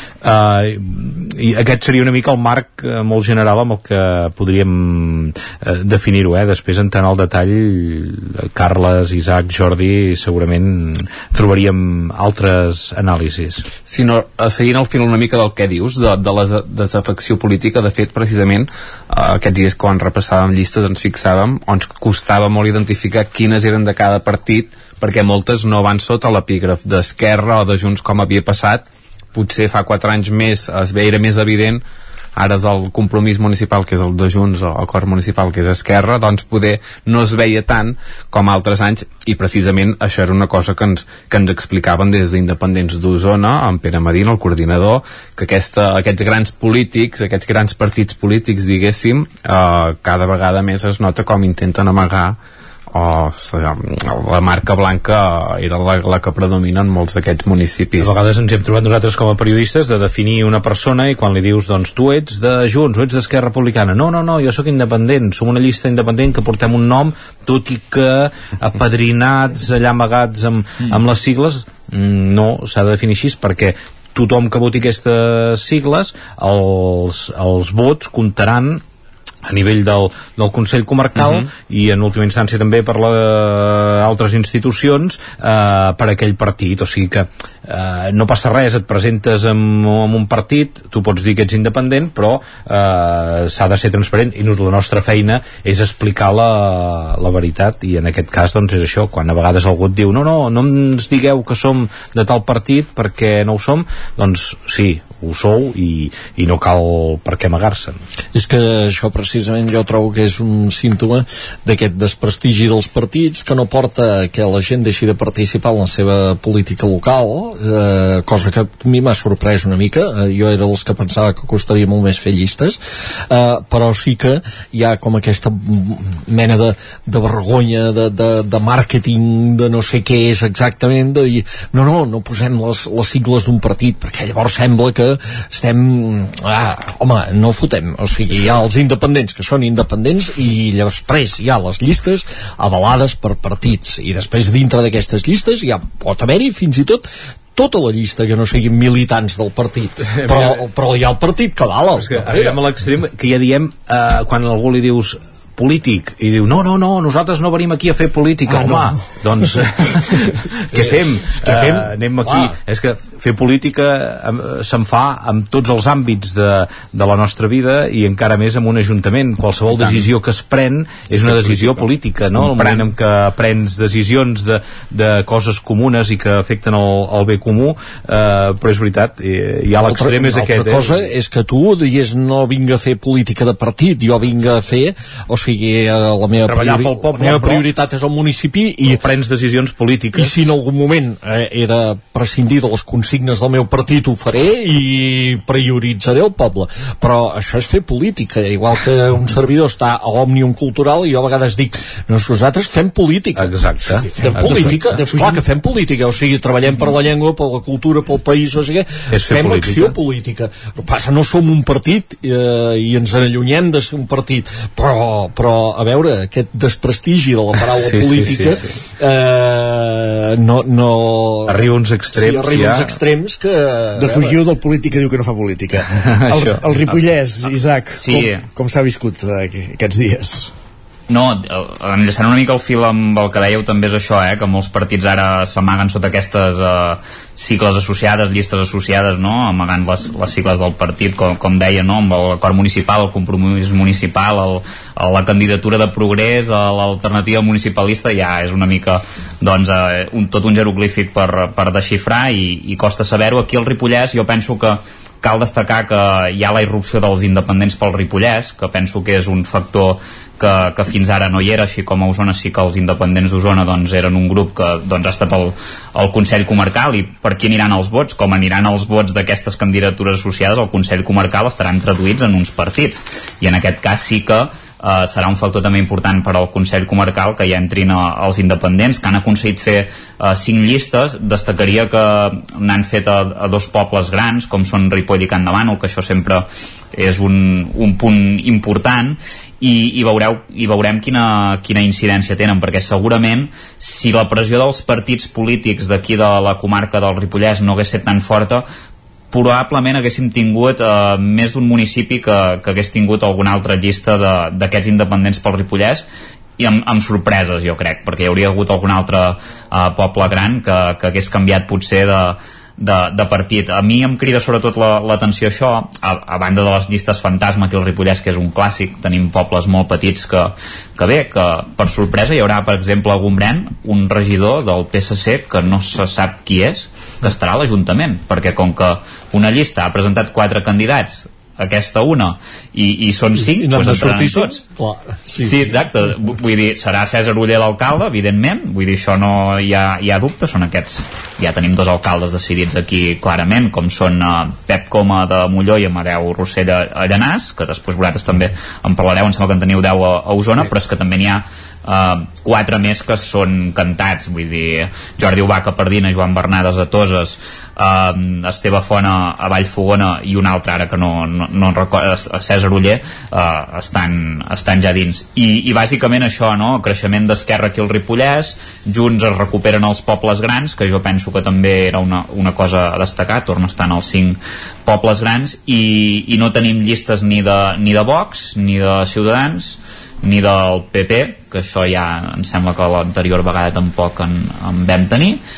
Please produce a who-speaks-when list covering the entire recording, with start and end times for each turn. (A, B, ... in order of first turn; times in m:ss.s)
0:00.2-0:13.7 A
0:13.7-0:31.8 B
0:32.4-0:52.4 B
0:52.9-0:58.1 B
0:58.0-1:18.8 A
1:19.5-1:48.0 A
1:48.3-2:32.6 C
2:30.1-2:30.6 A
2:32.0-3:01.0 A
2:38.5-2:39.0 D
2:40.7-2:42.5 C
2:59.8-3:09.0 C
3:06.4-3:07.7 A
3:08.8-3:10.5 A
3:10.1-3:44.4 C
3:23.4-3:25.0 A
3:24.2-3:25.4 D
3:29.1-3:29.9 A
3:37.8-3:38.6 A
3:41.5-3:42.9 A
3:44.0-3:50.5 D
3:48.0-3:48.4 E
3:51.1-4:58.6 E
4:59.3-5:06.0 E
5:06.6-5:34.5 E
5:33.3-5:35.8 C
5:35.4-6:25.4 E